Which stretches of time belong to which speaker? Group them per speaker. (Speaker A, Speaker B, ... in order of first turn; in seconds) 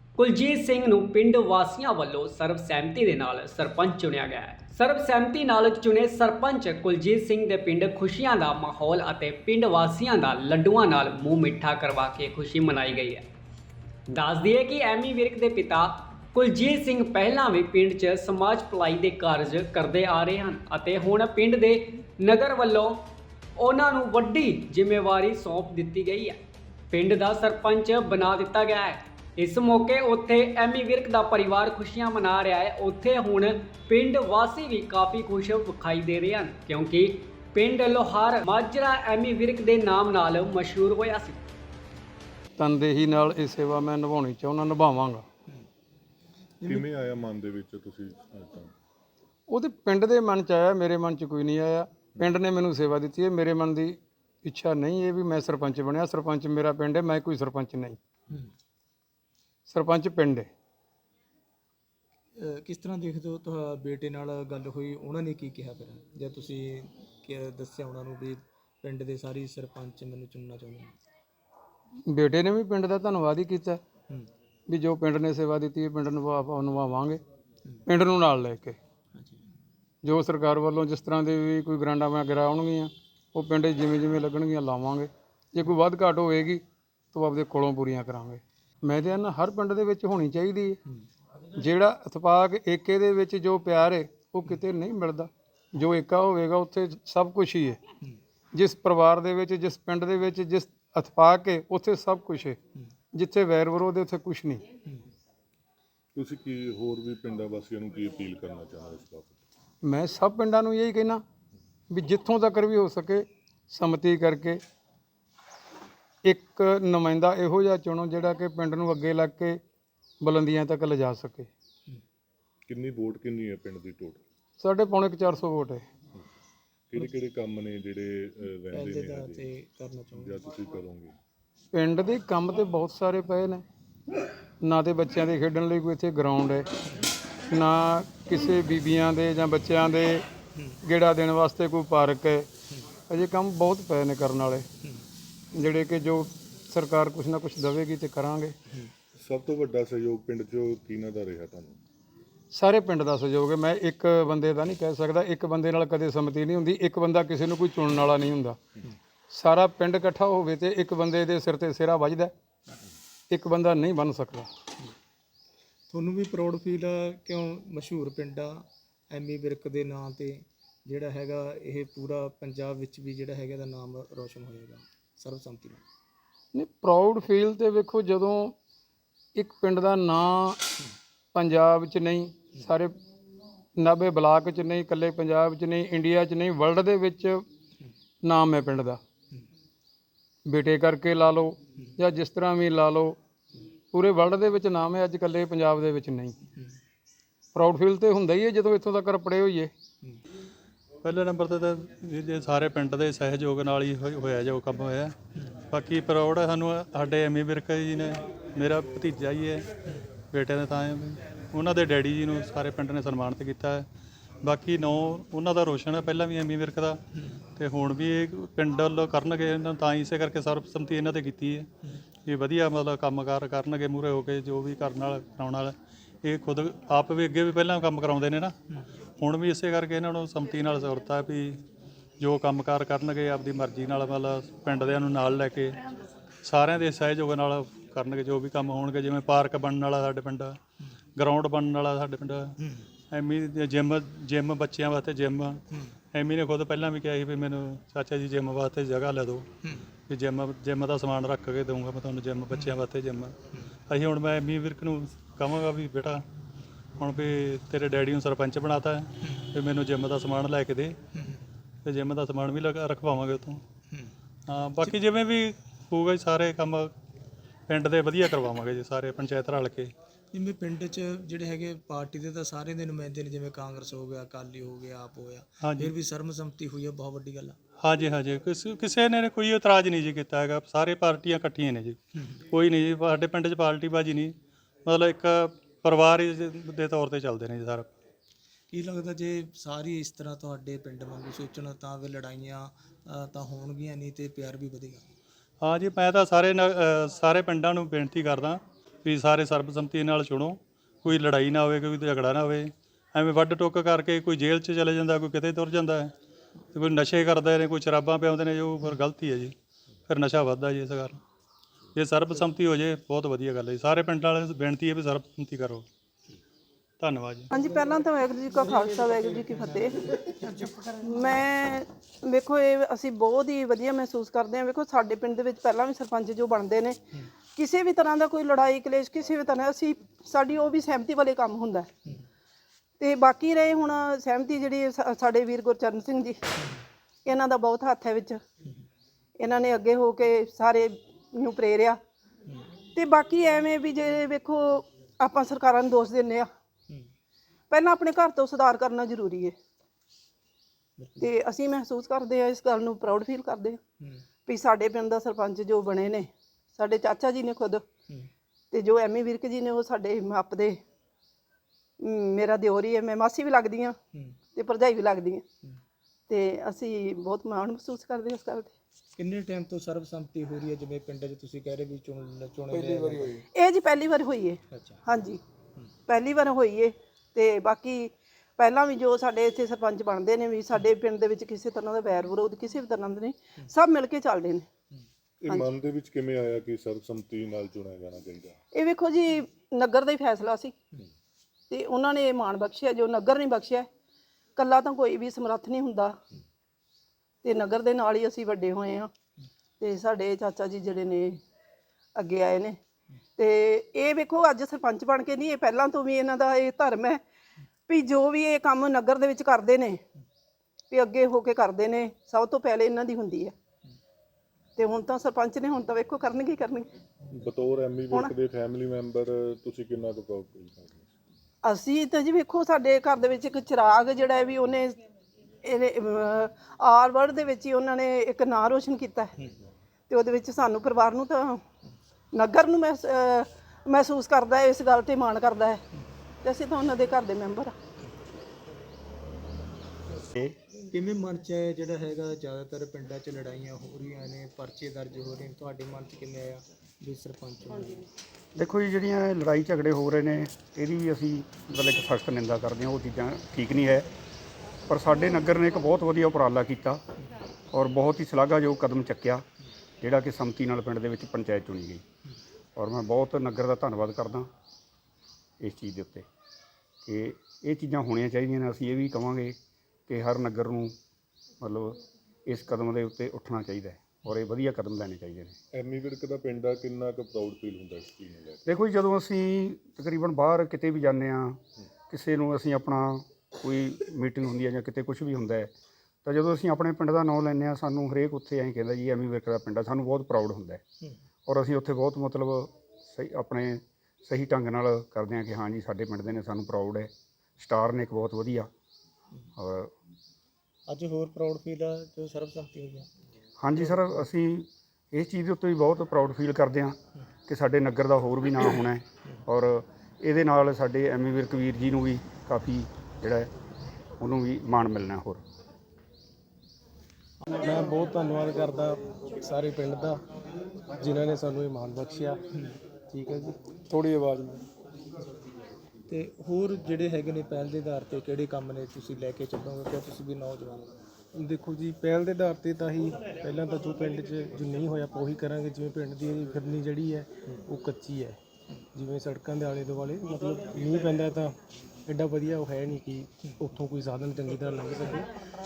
Speaker A: 0.2-13.2, 14.1-23.0, 23.6-26.4, 26.9-41.4
Speaker B: 42.6-45.2, 49.5-58.0, 59.7-60.5, 72.1-73.8, 74.7-77.2, 77.9-78.8, 80.0-90.8, 91.6-97.8, 98.5-102.6, 103.1-104.6, 109.8-111.2, 111.9-114.6, 116.2-119.6, 120.2-121.5, 124.6-125.9, 131.7-133.6, 134.6-136.7, 137.5-140.3, 140.8-142.5, 143.1-144.7, 145.5-148.6, 152.5-158.6, 159.3-162.3, 163.3-164.5, 176.5-178.5, 179.3-180.6, 181.3-182.9, 183.8-187.4, 188.2-189.0, 190.5-193.2, 193.9-196.4, 197.5-199.7, 523.9-524.6
Speaker C: 46.6-46.9, 62.4-71.0, 79.2-79.4, 128.7-130.4, 165.9-175.8, 242.6-242.9, 245.7-246.0, 249.6-249.9, 252.5-252.8, 259.2-259.5, 261.1-261.4, 270.3-277.6, 288.7-295.1, 336.6-336.8, 351.0-351.3, 354.0-354.2, 364.1-364.4, 369.1-373.4, 374.7-375.0, 440.8-448.1, 500.9-503.1, 503.8-504.2, 526.1-531.0
Speaker D: 46.7-48.7, 106.2-109.4, 122.7-124.2, 126.9-129.5, 130.2-131.2, 149.2-151.8, 385.4-388.6, 417.3-421.1, 475.7-478.6
Speaker E: 201.0-205.1, 205.7-209.7, 210.3-213.9, 214.4-217.0, 217.6-221.7, 222.3-228.5, 229.2-231.6, 232.2-235.8, 236.4-240.6, 241.2-242.5, 243.1-245.6, 246.1-249.5, 250.1-253.3, 253.9-256.2, 257.0-261.0, 261.9-263.6, 264.5-266.9, 267.7-269.9, 275.6-275.9, 277.8-282.0, 282.5-284.3, 284.9-287.9, 295.6-306.1, 306.7-309.5, 310.1-311.2, 311.9-315.9, 317.0-317.5
Speaker F: 317.5-327.0, 327.6-331.9, 333.0-336.4, 337.3-338.4, 339.4-342.0, 342.9-346.5, 347.7-349.5, 351.2-353.8, 354.5-357.8, 358.7-360.8, 362.0-364.0, 364.6-365.4, 366.3-368.7, 373.6-375.4, 376.1-384.7, 388.7-390.7, 391.7-393.9, 394.6-396.2, 397.4-399.1, 399.8-401.4, 402.2-402.8, 403.4-407.2, 407.9-410.0, 410.9-413.5, 414.8-416.9, 421.6-425.0, 425.6-429.4, 430.1-431.6, 432.3-435.8, 436.4-437.7
Speaker G: 448.6-454.1, 454.9-457.0, 457.7-459.4, 460.0-462.0, 462.8-464.5, 465.6-466.2, 467.1-469.6, 470.1-470.9, 471.6-475.6, 478.7-485.7, 486.2-490.8, 491.5-498.7, 499.6-499.9, 503.6-507.0, 507.5-513.5, 514.2-515.4
Speaker H: 517.6-520.2, 521.0-522.4, 523.1-523.6, 531.4-538.4, 538.9-541.6, 542.1-545.3